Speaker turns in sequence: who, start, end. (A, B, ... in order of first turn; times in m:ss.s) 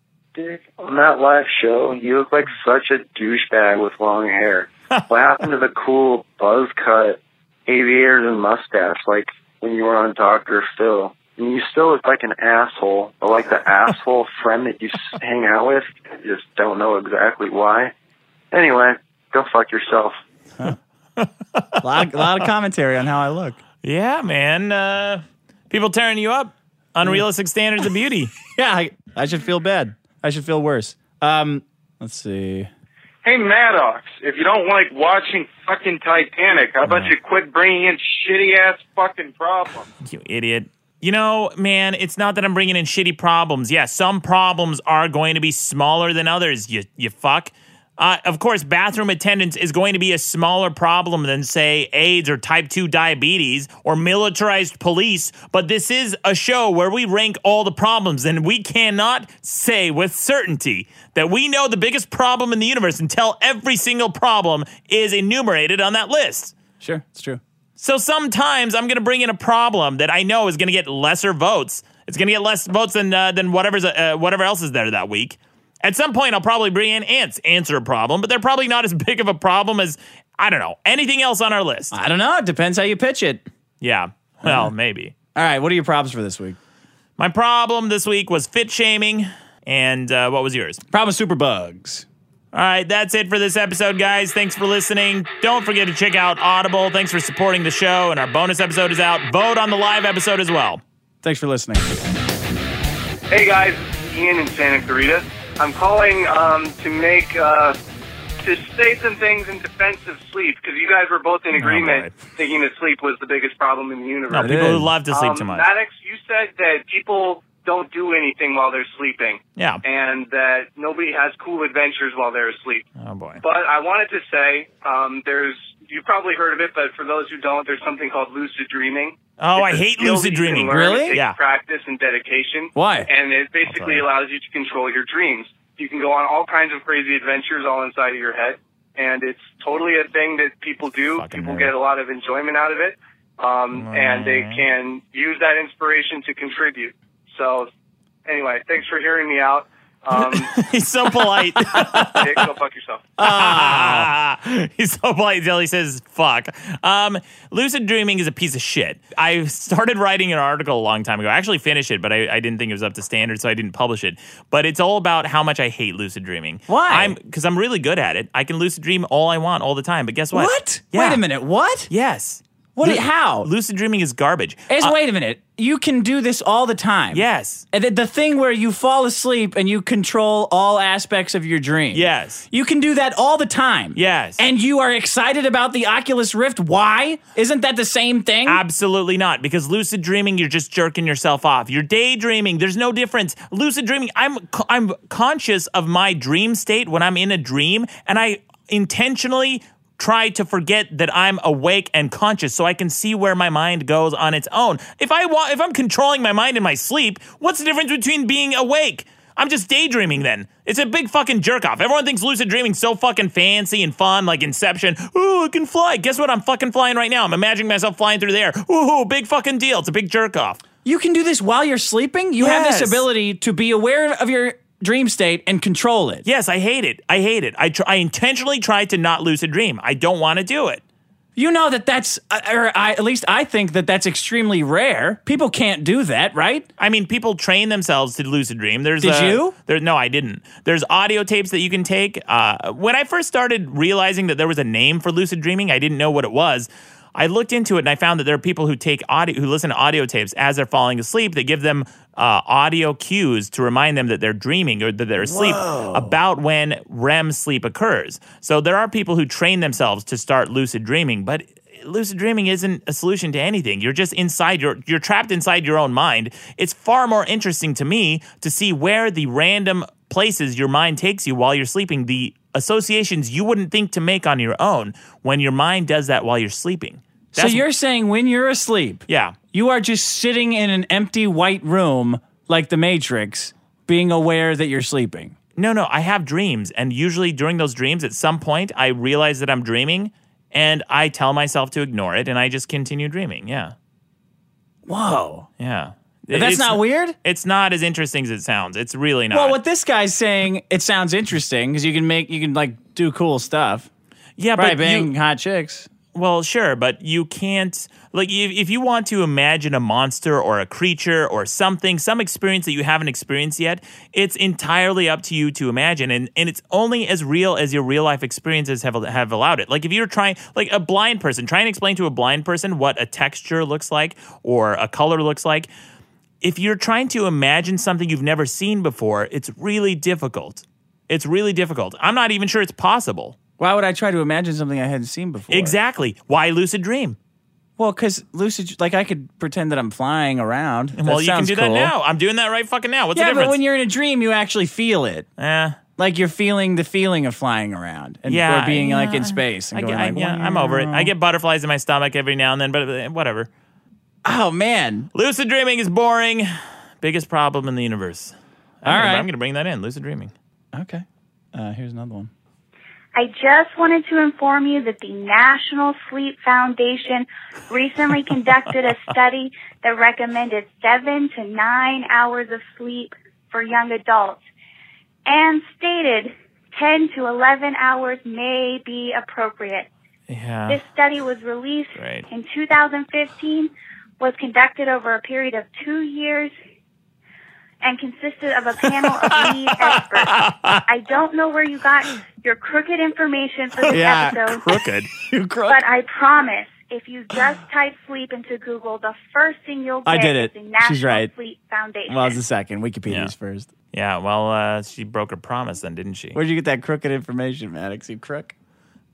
0:00.4-0:17.9 A
0:18.5-0:20.2 A
0:21.2-0:22.4 B
0:21.8-0:23.6 C
0:23.8-0:28.3 B
0:28.5-0:32.7 C
0:36.8-0:37.1 B
0:40.0-1:06.5 B
1:06.8-1:07.4 C
1:07.8-1:21.9 B
1:21.9-1:23.4 C
1:23.8-1:25.1 B
1:24.4-1:24.7 C
1:25.3-1:26.6 C
1:27.2-1:30.8 B
1:30.9-1:32.0 C
1:32.5-1:40.8 B
1:41.2-1:42.1 C
1:43.3-1:47.8 D
1:48.4-2:02.8 D
1:51.6-1:52.2 B
1:54.3-1:55.7 B
1:54.3-1:54.9 C
1:59.6-1:59.8 B
2:03.0-2:03.4 B
2:03.4-2:27.7 D
2:09.4-2:11.4 B
2:10.6-2:11.2 C
2:12.7-2:13.1 C
2:13.6-2:14.0 B
2:21.2-2:21.7 B
2:23.7-2:24.6 B
2:28.2-2:30.5 D
2:30.1-2:32.4 B
2:31.7-2:33.1 D
2:33.2-2:34.1 C
2:33.2-2:51.2 B
2:46.7-2:47.2 C
2:50.3-2:51.9 C
2:51.9-2:54.9 B
2:52.7-2:53.5 C
2:54.7-3:08.6 C
2:57.1-2:57.6 B
3:01.9-3:02.4 B
3:03.9-3:04.4 B
3:08.4-3:40.6 B
3:40.8-3:46.2 C
3:42.4-3:43.0 B
3:46.2-3:50.8 B
3:51.4-3:56.7 C
3:56.8-4:37.6 B
3:59.0-3:59.5 C
4:15.2-4:16.2 C
4:37.3-4:45.3 C
4:39.1-4:39.4 B
4:45.6-4:53.7 B
4:54.9-4:55.5 C
4:55.6-4:59.6 B
4:56.3-4:57.2 C
4:59.3-5:03.9 C
5:04.4-5:05.1 B
5:04.6-5:05.9 C
5:06.1-5:25.7 B
5:26.4-5:33.4 B
5:33.6-5:35.8 C
5:35.5-5:37.2 B
5:37.8-5:41.9 C
5:41.0-5:43.6 B
5:43.1-5:45.2 C
5:45.4-5:45.8 B
5:46.0-5:51.1 C
5:48.2-5:53.5 B
5:54.2-5:55.1 C
5:55.1-5:56.5 B
5:57.0-6:00.3 B
5:58.8-5:59.3 C
6:00.7-6:02.3 C
6:03.1-6:14.4 E
6:15.2-6:19.9 E
6:20.3-6:20.8 B
6:20.7-6:26.5 E
6:22.0-6:22.2 B
6:27.8-6:34.7 E
6:29.0-6:30.8 B
6:33.9-6:35.8 C
6:34.4-6:35.1 B
6:35.7-6:42.4 E
6:40.0-6:41.3 C
6:42.1-6:43.7 C
6:43.9-6:46.4 B
6:46.3-6:48.5 C